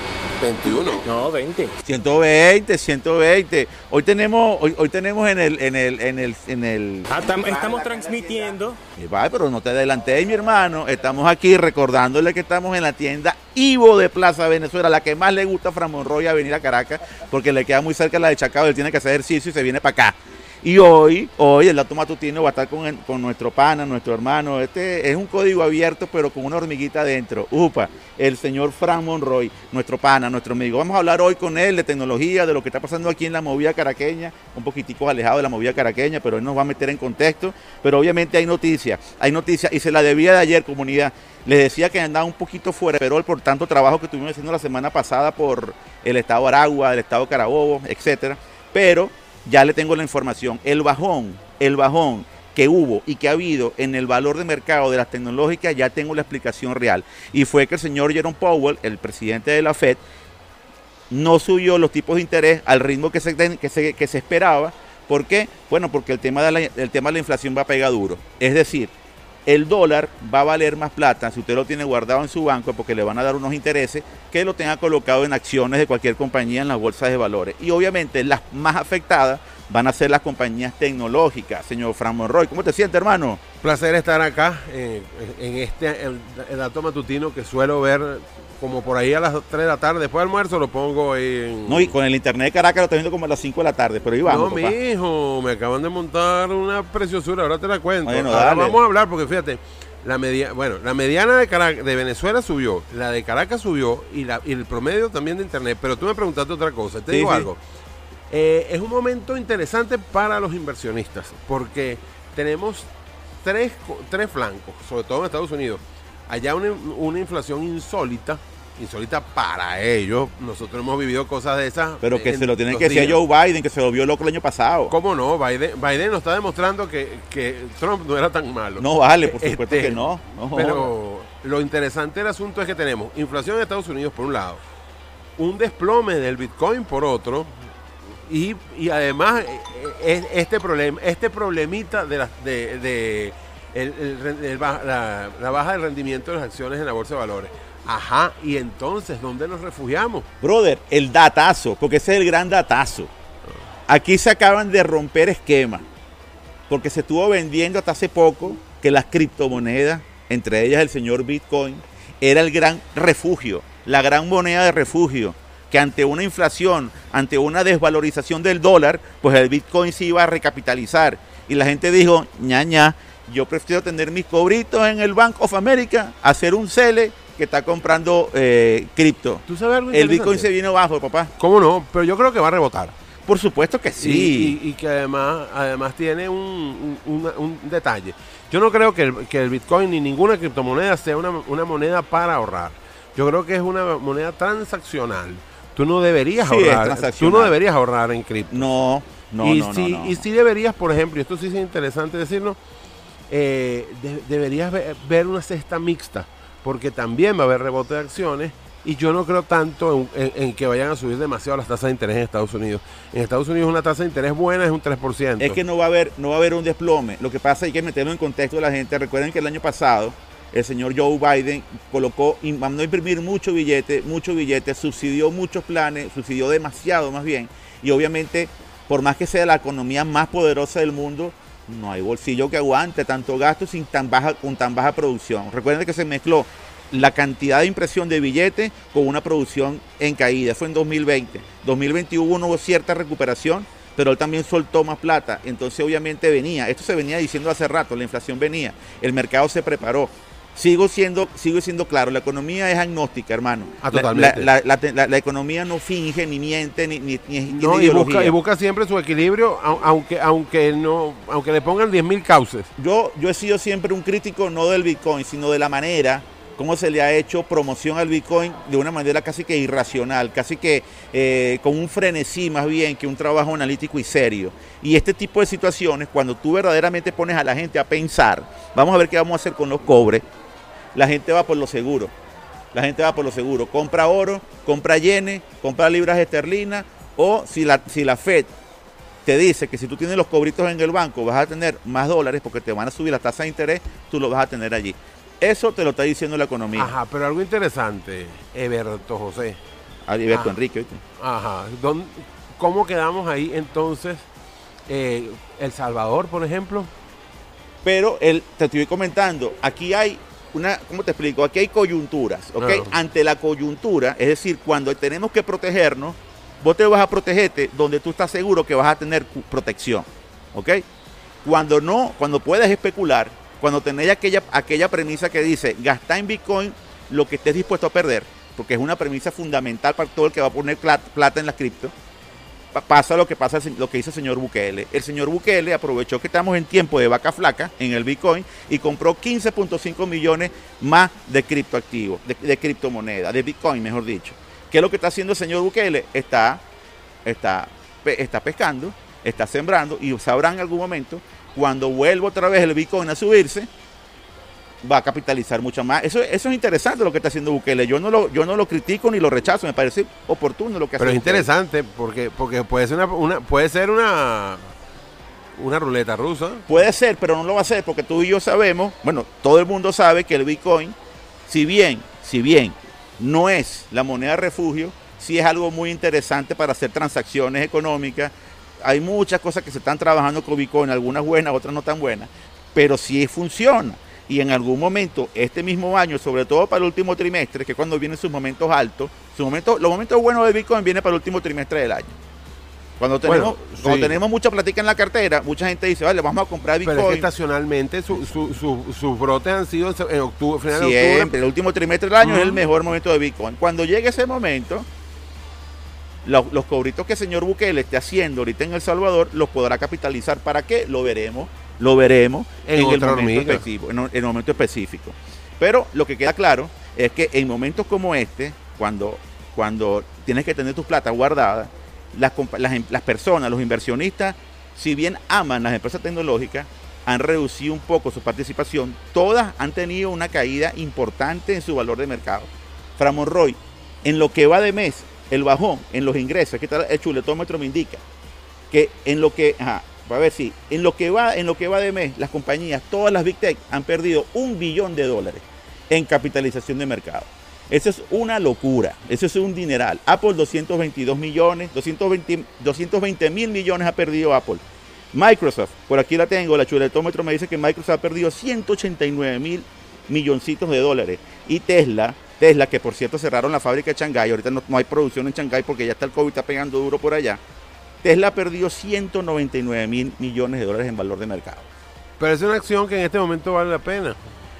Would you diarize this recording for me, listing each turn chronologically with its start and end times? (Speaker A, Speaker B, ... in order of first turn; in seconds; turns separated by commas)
Speaker A: 0.4-1.1, Speaker B: 0.8-1.8, Speaker C: 1.8-60.0, Speaker B: 7.1-8.8, Speaker C: 61.1-68.9, Speaker C: 69.5-83.4, Speaker A: 83.6-91.9, Speaker C: 91.7-94.8, Speaker A: 94.2-107.6, Speaker C: 98.0-98.8, Speaker C: 107.1-107.5, Speaker A: 108.3-112.9, Speaker A: 113.4-123.2, Speaker C: 122.0-124.9, Speaker A: 124.9-134.6, Speaker C: 128.8-130.9, Speaker A: 135.4-137.5, Speaker A: 138.3-150.3, Speaker C: 150.4-153.1, Speaker C: 153.9-155.8, Speaker C: 156.7-181.3, Speaker A: 179.5-180.5, Speaker A: 181.4-182.9, Speaker C: 183.2-184.6, Speaker A: 184.0-198.7, Speaker C: 196.4-197.6, Speaker C: 198.5-200.2, Speaker A: 199.4-202.6, Speaker A: 203.3-215.6, Speaker C: 215.4-258.4, Speaker A: 253.8-254.5, Speaker A: 257.5-262.7, Speaker C: 262.8-280.2, Speaker C: 280.9-282.1, Speaker C: 282.7-288.5, Speaker C: 289.2-296.9, Speaker A: 296.7-299.6, Speaker C: 300.1-301.0, Speaker A: 300.3-300.6, Speaker A: 301.2-304.3, Speaker A: 304.9-306.9, Speaker C: 307.8-320.8, Speaker A: 312.6-313.0, Speaker C: 321.4-331.9, Speaker C: 332.7-346.6, Speaker C: 347.2-353.7, Speaker C: 354.8-361.5, Speaker A: 361.0-364.7, Speaker A: 365.6-366.7, Speaker C: 366.7-370.9, Speaker C: 371.5-378.3, Speaker C: 378.8-392.1, Speaker C: 393.0-397.3, Speaker A: 393.2-394.2, Speaker A: 396.8-401.3, Speaker C: 400.7-404.9, Speaker A: 402.2-402.6, Speaker C: 406.2-438.0, Speaker A: 412.6-413.6, Speaker C: 438.7-467.4, Speaker C: 468.0-471.7, Speaker A: 472.2-474.2